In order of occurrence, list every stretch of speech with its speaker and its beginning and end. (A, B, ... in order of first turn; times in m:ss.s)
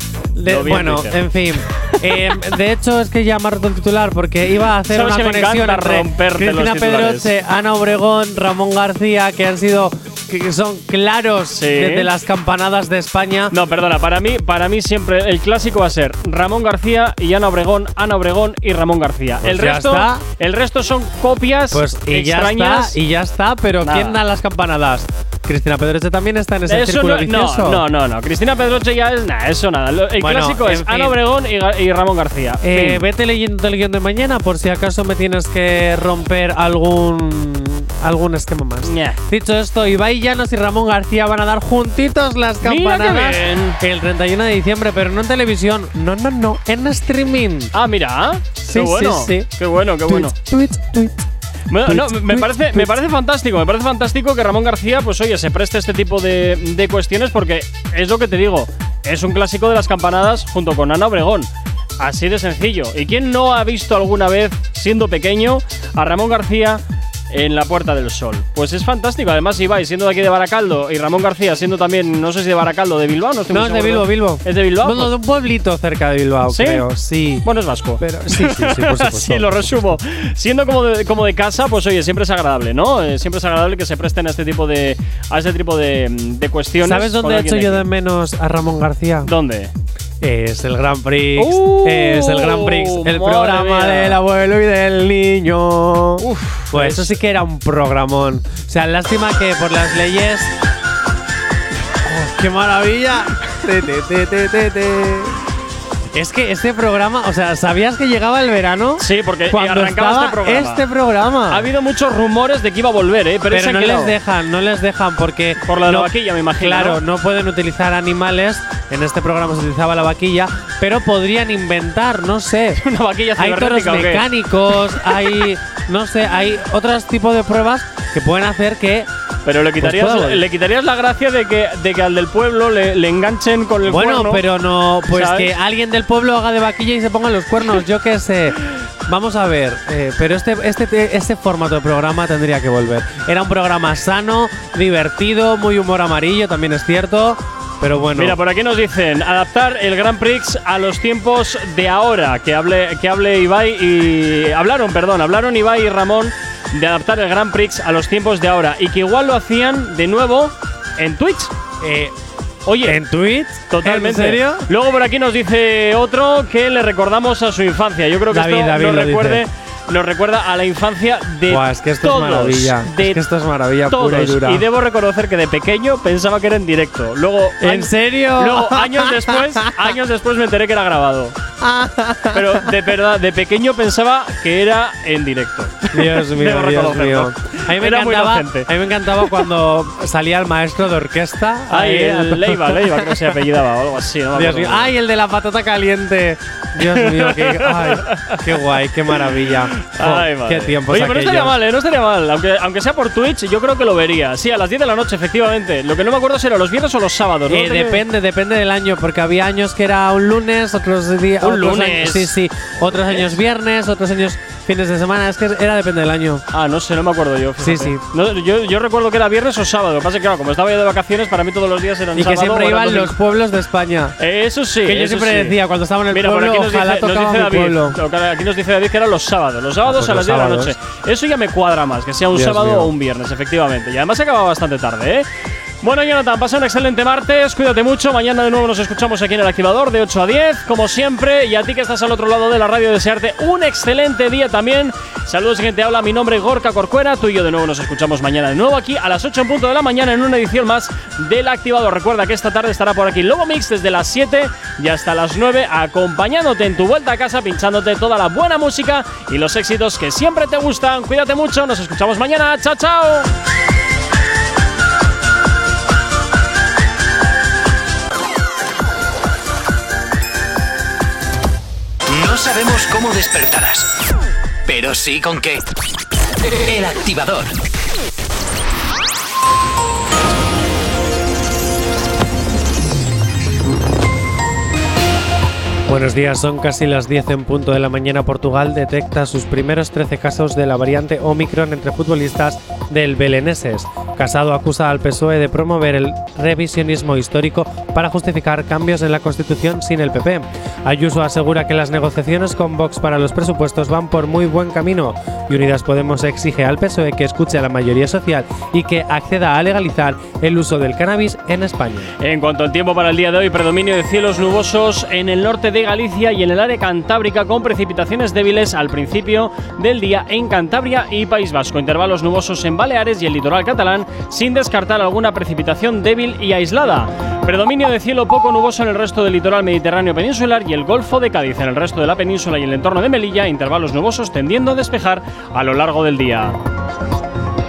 0:00.4-0:13.5 A
0:00.5-0:01.2 B
0:02.1-0:02.4 B
0:04.9-0:07.3 B
0:11.6-0:12.1 B
0:13.5-0:23.0 B
0:19.4-0:20.2 A
0:21.7-0:27.8 A
0:23.8-0:24.2 B
0:26.7-0:33.0 B
0:30.2-0:31.2 A
0:32.6-0:47.7 A
0:38.8-0:39.2 B
0:42.6-0:43.8 B
0:47.7-0:50.3 B
0:48.7-0:49.5 A
0:50.1-0:51.3 A
0:51.7-1:01.5 B
0:51.9-0:52.9 A
1:02.0-1:15.1 B
1:13.5-1:17.4 A
1:16.5-1:16.8 B
1:17.4-1:27.8 B
1:18.0-1:19.5 A
1:26.8-1:29.3 A
1:29.2-1:29.7 B
1:30.2-1:40.5 A
1:31.4-1:34.2 B
1:36.2-1:37.1 B
1:42.0-1:45.4 A
1:46.1-1:51.7 A
1:49.0-1:50.8 B
1:51.5-1:54.2 B
1:53.5-2:02.8 A
1:55.7-1:57.0 B
2:02.8-2:04.2 B
2:03.4-2:09.1 A
2:05.0-2:05.4 B
2:09.5-2:14.4 B
2:09.8-2:10.4 A
2:13.8-2:18.6 A
2:15.1-2:15.5 B
2:19.1-2:28.4 A
2:28.2-2:41.5 B
2:41.8-2:42.1 A
2:42.7-2:43.0 B
2:42.8-2:44.6 A
2:43.7-2:53.2 B
2:48.3-2:49.4 A
2:51.5-2:54.6 A
2:53.9-3:01.4 B
2:57.6-2:59.9 A
3:01.6-3:02.7 A
3:02.3-3:08.7 B
3:05.9-3:13.4 A
3:11.7-3:14.9 B
3:14.4-3:21.6 A
3:16.8-3:18.4 B
3:19.2-3:28.0 B
3:27.5-3:36.4 A
3:31.4-3:32.3 B
3:33.1-3:33.4 B
3:36.5-3:43.1 B
3:37.6-3:38.0 A
3:42.2-3:44.2 A
3:44.2-3:45.6 B
3:44.8-3:48.0 A
3:46.1-3:55.3 B
3:49.8-3:50.8 A
3:52.3-3:52.9 A
3:55.8-4:23.3 B
4:32.1-4:33.9 C
4:34.7-4:35.6 C
4:36.7-4:37.5 C
4:45.9-5:12.1 A
5:12.2-5:36.6 B